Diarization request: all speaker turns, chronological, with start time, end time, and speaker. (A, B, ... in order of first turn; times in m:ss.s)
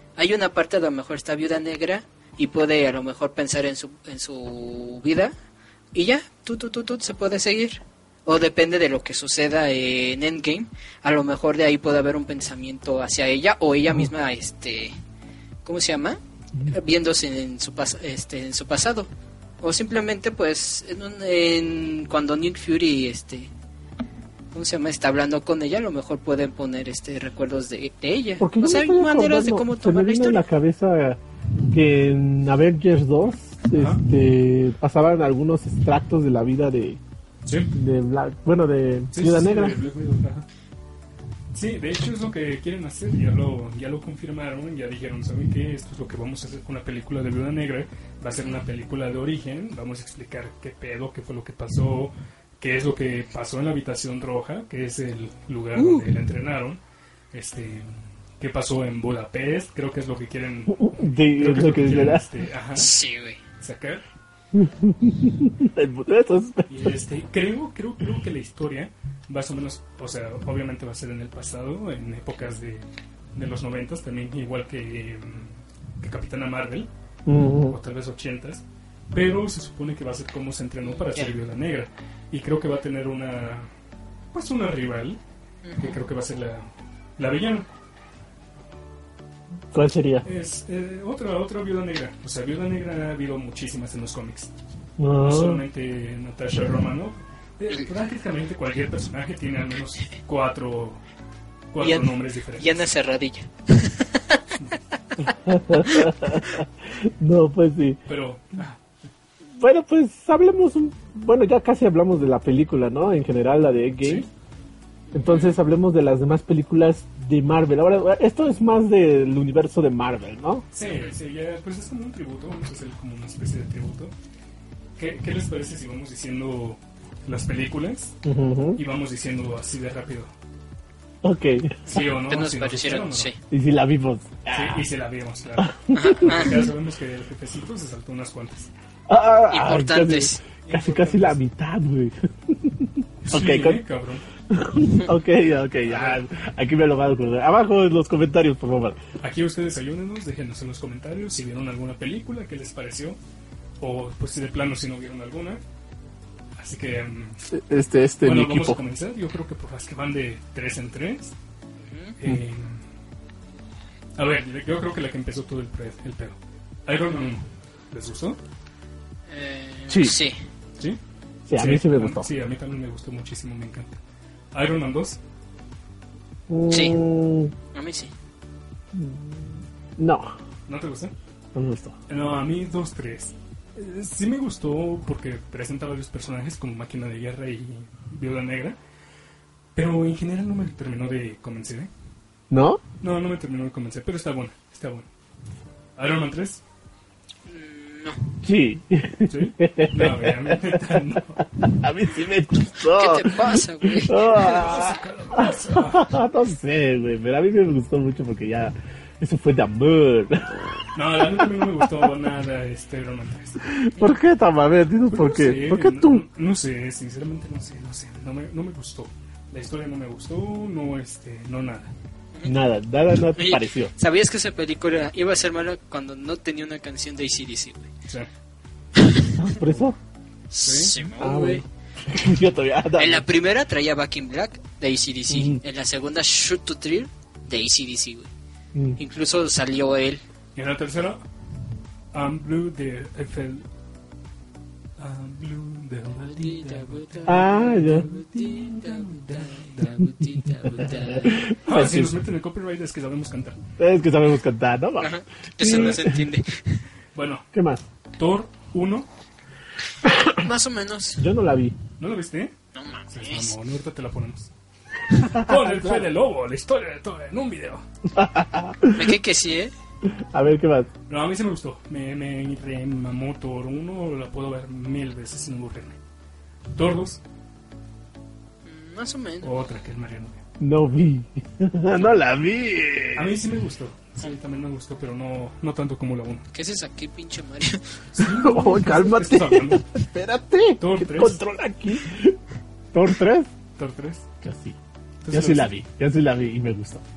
0:00.2-0:05.3 A
0:05.9-0:14.9 A
0:15.6-0:19.1 A
0:19.6-0:23.5 A
0:24.5-0:30.4 A
0:28.4-0:37.0 B
0:33.7-0:34.0 C
0:37.4-0:37.7 C
0:37.7-0:39.8 B
0:39.1-0:40.4 C
0:41.5-0:56.8 C
0:55.8-0:56.0 A
0:57.3-1:03.0 C
1:00.7-1:02.3 B
1:02.8-1:03.4 A
1:03.6-1:04.0 C
1:04.5-1:06.7 B
1:06.7-1:16.9 C
1:17.2-1:17.8 B
1:17.7-1:23.7 C
1:20.8-1:21.3 A
1:24.3-1:25.2 C
1:25.6-1:26.0 A
1:25.8-1:27.7 C
1:29.7-1:30.2 B
1:30.2-1:34.5 C
1:35.0-1:35.6 B
1:35.2-1:41.0 C
1:41.7-1:42.8 C
1:41.8-1:44.4 A
1:44.6-1:45.3 C
1:45.4-1:48.0 B
1:48.0-1:48.8 C
1:49.6-1:54.3 B
1:54.0-1:54.3 C
1:55.1-2:00.6 B
2:00.7-2:04.1 C
2:05.0-2:08.2 C
2:08.2-2:08.8 B
2:08.8-2:10.3 C
2:11.2-2:11.9 B
2:11.9-2:13.3 C
2:11.9-2:13.4 A
2:13.5-2:14.8 B
2:14.5-2:18.7 C
2:15.6-2:16.6 B
2:15.9-2:16.7 A
2:19.1-2:23.8 B
2:19.5-2:20.4 A
2:20.6-2:21.4 C
2:23.2-2:24.2 C
2:24.5-2:29.0 B
2:25.8-2:26.2 C
2:29.2-2:33.2 C
2:33.8-2:35.6 C
2:36.6-2:37.5 C
2:37.5-2:38.8 B
2:38.2-2:41.3 C
2:41.8-2:42.2 A
2:42.2-2:42.8 C
2:44.2-2:48.4 C
2:49.3-2:50.4 A
2:49.9-2:50.2 B
2:51.5-2:52.3 B
2:51.5-2:54.0 C
2:54.5-2:55.2 C
2:56.5-2:57.5 B
2:56.7-2:57.0 A
2:57.7-2:58.1 A
2:58.9-3:00.3 B
3:00.7-3:01.1 C
3:01.5-3:01.9 B
3:02.1-3:08.8 C
3:09.7-3:11.9 C
3:12.5-3:12.8 B
3:13.0-3:15.1 C
3:16.0-3:16.6 C
3:17.4-3:18.4 A
3:18.4-3:31.9 B
3:19.3-3:21.5 C
3:22.8-3:24.4 A
3:24.2-3:26.1 C
3:30.9-3:33.7 C
3:33.6-3:36.2 B
3:35.1-3:41.9 C
3:42.3-3:42.6 A
3:42.4-3:43.9 B
3:43.3-3:47.9 A
3:49.0-3:49.5 A
3:49.4-3:50.0 B
3:50.5-3:51.6 A
3:50.6-3:51.0 C
3:51.2-3:53.2 B
3:53.0-3:58.3 A
3:55.3-3:55.6 B
3:58.7-3:59.0 B
3:59.0-4:00.2 A
4:00.5-4:01.2 C
4:02.1-4:03.6 C
4:05.0-4:10.1 C
4:06.2-4:11.4 A
4:07.3-4:08.1 B
4:11.1-4:12.1 B
4:11.6-4:13.6 C
4:13.8-4:16.3 B
4:15.0-4:16.8 A
4:17.1-4:17.5 C
4:17.5-4:17.8 B
4:18.2-4:19.1 C
4:20.0-4:20.4 B
4:20.1-4:21.2 A
4:21.2-4:21.8 B
4:22.0-4:22.5 C
4:22.7-4:23.5 A
4:23.1-4:24.5 C
4:25.1-4:27.8 C
4:25.3-4:26.0 B
4:28.1-4:29.1 B
4:28.9-4:29.7 A
4:30.0-4:30.9 B
4:31.1-4:36.0 C
4:36.7-4:37.2 C
4:38.6-4:39.5 A
4:39.4-4:40.4 C
4:40.6-4:43.4 B
4:43.1-4:46.4 C
4:46.5-4:48.0 A
4:48.1-4:49.9 C
4:48.2-4:52.4 B
4:50.8-4:51.4 C
4:52.9-4:53.5 B
4:53.8-4:54.3 C
4:54.4-4:54.8 B
4:55.2-4:55.7 C
4:55.3-4:57.0 B